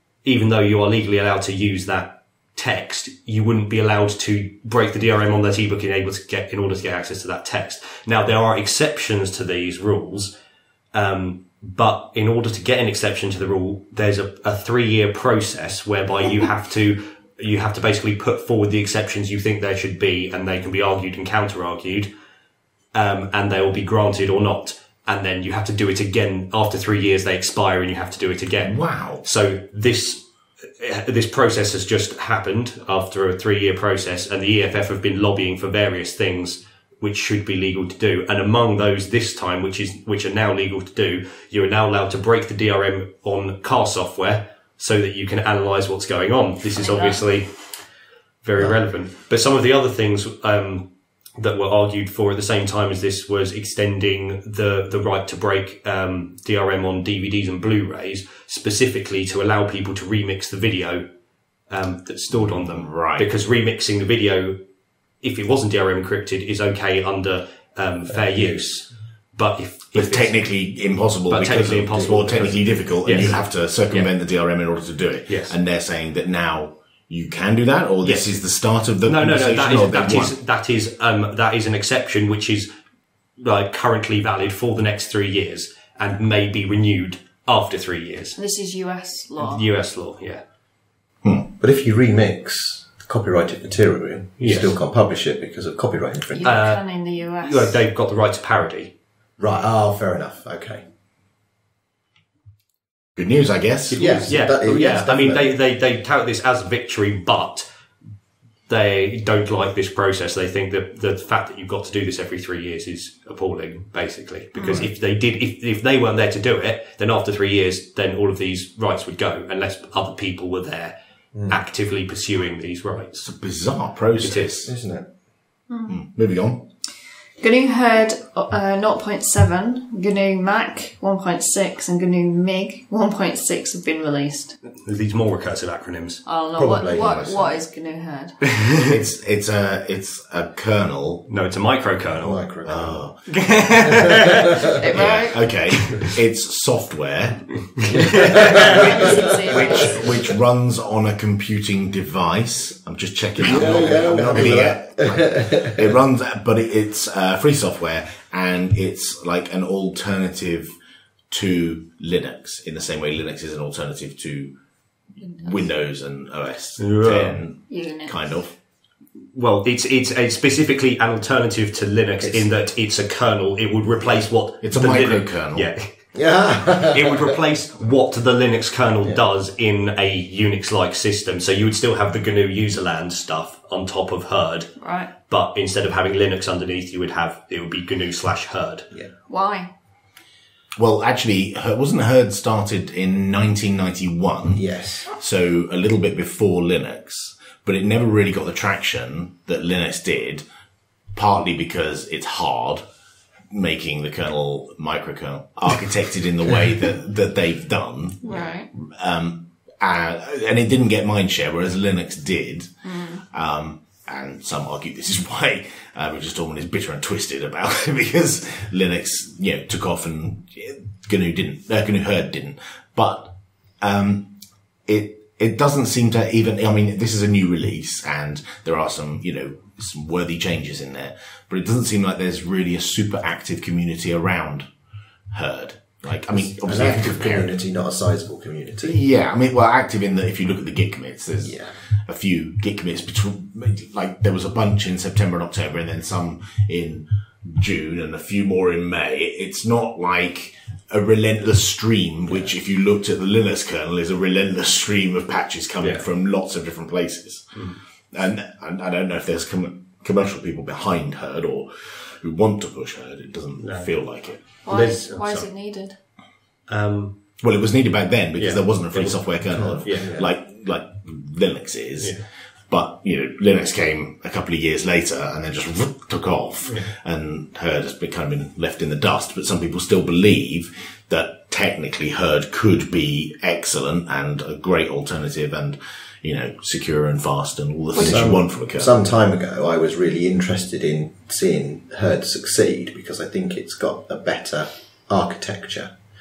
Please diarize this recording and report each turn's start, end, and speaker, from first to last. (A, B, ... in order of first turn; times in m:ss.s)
0:00.2-0:10.3 A
0:10.9-0:22.1 A
0:22.9-0:47.6 A
0:28.6-0:29.2 B
0:46.7-0:47.3 C
0:48.4-1:01.1 A
1:01.7-1:04.6 A
1:02.3-1:03.3 B
1:05.2-1:10.4 A
1:09.9-1:20.3 B
1:11.3-1:14.1 A
1:15.3-1:15.6 A
1:18.0-1:18.4 A
1:19.0-1:22.7 A
1:23.4-1:28.4 A
1:28.4-1:29.7 C
1:29.4-1:30.4 A
1:31.6-1:36.6 D
1:34.4-1:34.8 A
1:36.3-1:37.8 C
1:36.4-1:36.8 A
1:37.4-1:38.9 A
1:39.4-1:40.9 D
1:43.2-1:44.2 B
1:43.9-1:47.7 A
1:43.9-1:45.5 D
1:48.7-2:01.0 A
1:54.5-1:54.9 C
2:01.3-2:01.6 D
2:01.5-2:03.2 A
2:03.2-2:04.7 B
2:04.2-2:04.5 A
2:04.6-2:05.1 D
2:05.7-2:06.0 C
2:05.9-2:06.7 B
2:07.4-2:14.6 C
2:14.8-2:16.2 A
2:16.2-2:18.4 C
2:16.6-2:17.4 D
2:16.9-2:17.5 B
2:18.7-2:21.3 B
2:21.3-2:22.4 A
2:22.2-2:23.1 D
2:22.6-2:23.6 B
2:23.3-2:24.4 A
2:24.8-2:25.5 C
2:24.9-2:40.7 B
2:25.8-2:26.1 A
2:27.9-2:28.5 A
2:28.6-2:30.3 C
2:29.4-2:30.2 D
2:33.4-2:36.0 D
2:33.6-2:33.8 A
2:41.3-2:44.5 B
2:45.2-2:48.5 B
2:45.2-2:45.7 C
2:46.8-2:47.4 A
2:47.7-2:48.2 C
2:49.3-2:55.9 A
2:54.6-2:55.7 B
2:56.1-2:57.4 D
2:56.8-3:04.7 A
3:04.8-3:05.1 C
3:05.2-3:08.9 A
3:09.3-3:09.7 C
3:10.8-3:20.4 B
3:14.5-3:15.1 D
3:21.1-3:22.8 B
3:23.5-3:54.7 B
3:28.2-3:28.7 C
3:32.8-3:33.2 C
3:55.3-3:57.6 B
3:56.3-3:59.0 D
3:58.8-4:24.4 B
4:01.4-4:01.8 D
4:15.8-4:16.0 A
4:17.6-4:17.8 A
4:23.6-4:25.5 A
4:24.6-4:26.0 C
4:26.7-4:27.2 A
4:27.4-4:32.2 B
4:28.4-4:30.1 A
4:29.5-4:30.3 D
4:32.7-4:48.9 B
4:36.6-4:36.9 A
4:47.9-4:48.3 C
4:48.0-4:56.0 D